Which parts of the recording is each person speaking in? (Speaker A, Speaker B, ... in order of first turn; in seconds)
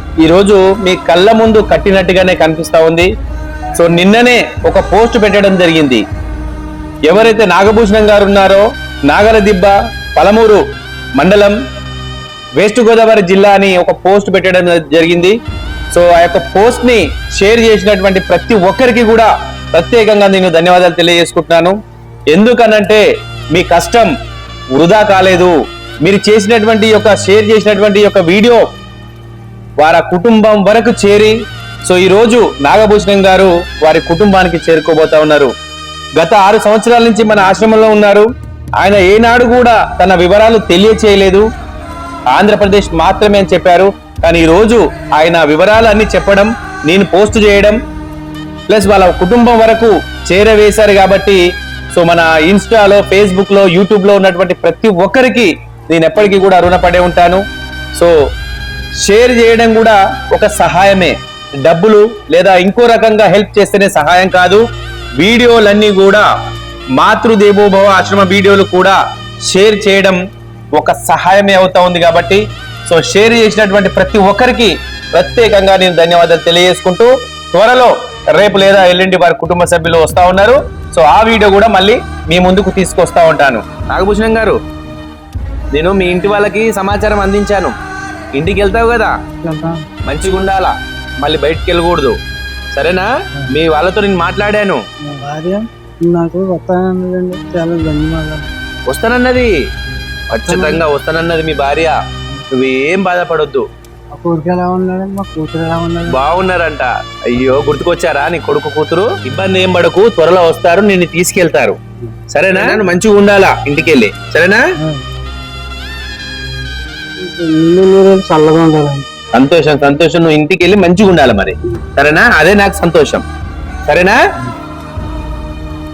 Speaker A: 0.2-3.1, 3.8-6.0, 7.1-10.6, 11.2-11.6, 12.6-15.4, 15.9-21.8, 22.3-23.0, 23.6-24.1, 24.8-25.5, 26.0-28.6, 29.8-31.3, 31.9-35.5, 36.2-38.3, 38.8-41.4, 42.3-47.8, 48.7-51.4, 51.9-57.4, 59.0-64.6, 65.2-66.3, 67.0-70.2, 70.8-84.6, 85.7-87.7, 88.3-89.1, 90.0-92.1, 92.7-94.8, 98.9-99.5, 100.3-102.0, 102.5-103.6, 106.1-111.8, 112.3-114.6, 119.3-123.2, 123.9-124.2
Speaker B: 89.4-89.8, 95.1-98.5, 100.5-100.8, 104.1-106.2, 112.5-112.8, 117.2-119.1